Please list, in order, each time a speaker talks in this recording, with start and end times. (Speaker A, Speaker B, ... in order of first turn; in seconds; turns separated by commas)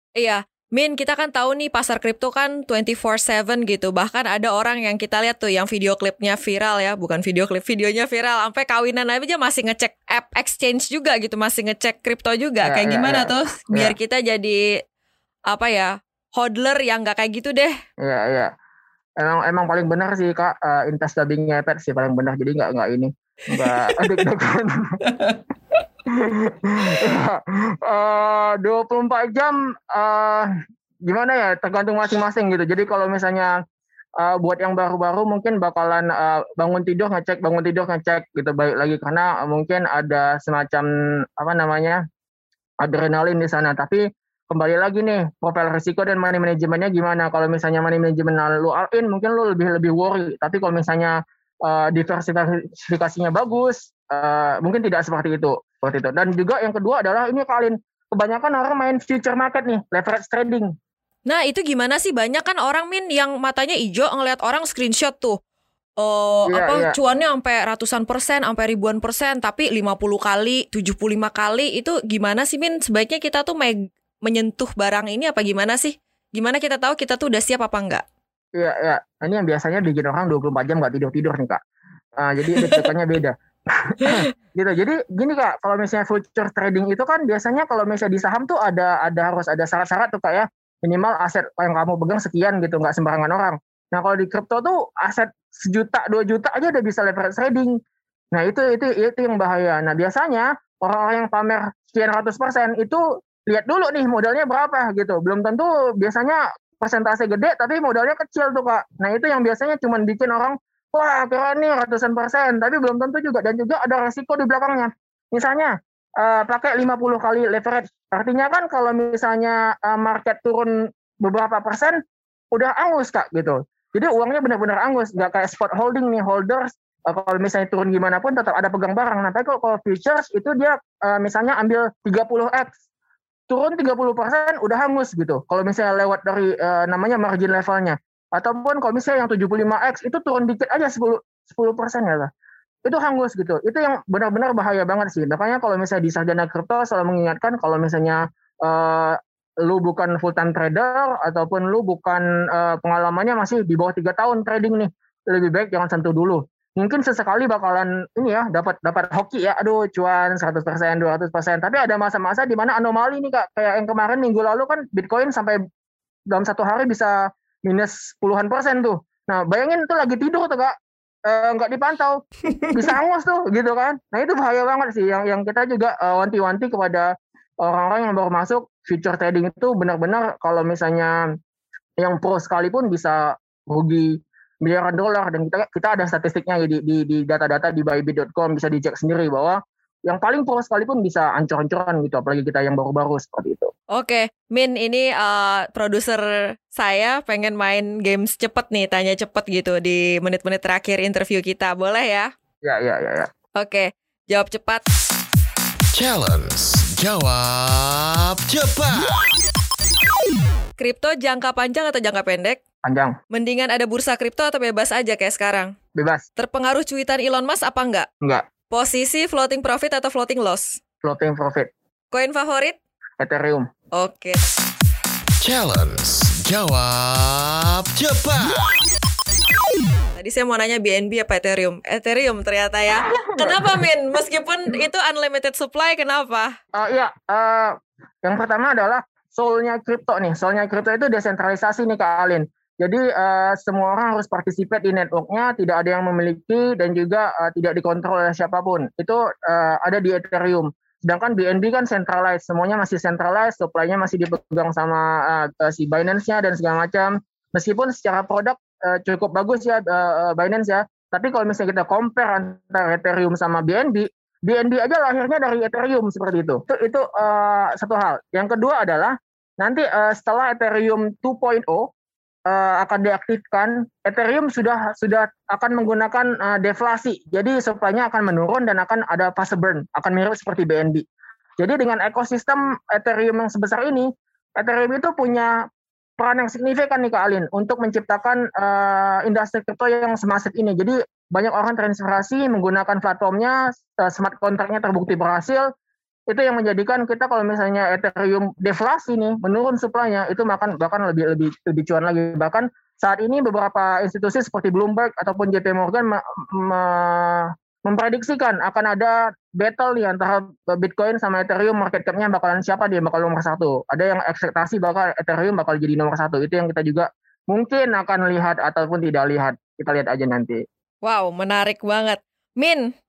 Speaker A: 0.2-14.6, Speaker B: 12.6-13.9, Speaker A: 15.5-17.8, Speaker B: 18.0-18.5, Speaker B: 19.2-25.0, Speaker A: 23.6-24.0, Speaker A: 25.1-25.4, Speaker B: 26.1-30.5, Speaker B: 31.1-33.6, Speaker B: 34.2-42.0, Speaker B: 42.8-60.7, Speaker A: 61.3-65.4, Speaker A: 66.0-78.0, Speaker B: 66.5-67.0, Speaker B: 78.6-81.6, Speaker B: 82.2-97.8, Speaker A: 84.0-84.3, Speaker B: 98.3-122.0, Speaker B: 122.5-132.7, Speaker B: 133.5-142.3, Speaker B: 142.8-165.6, Speaker B: 166.3-170.8, Speaker B: 171.3-172.2, Speaker A: 172.6-172.9, Speaker B: 172.7-181.2, Speaker B: 182.0-193.7, Speaker A: 193.9-202.3, Speaker B: 202.6-203.3, Speaker A: 203.6-204.8, Speaker C: 205.9-209.3, Speaker A: 210.8-212.6, Speaker B: 212.8-213.2, Speaker A: 213.3-215.7, Speaker B: 215.9-216.3, Speaker A: 216.4-218.1, Speaker A: 218.7-220.8, Speaker B: 221.0-221.7, Speaker A: 222.1-222.8, Speaker B: 223.2-223.7, Speaker A: 223.9-224.5, Speaker C: 225.4-228.7, Speaker A: 230.1-236.6, Speaker B: 233.2-233.8, Speaker B: 236.8-271.9, Speaker B: 272.5-281.0, Speaker B: 281.6-285.6, Speaker B: 286.2-295.7, Speaker B: 296.3-320.6, Speaker A: 321.0-322.9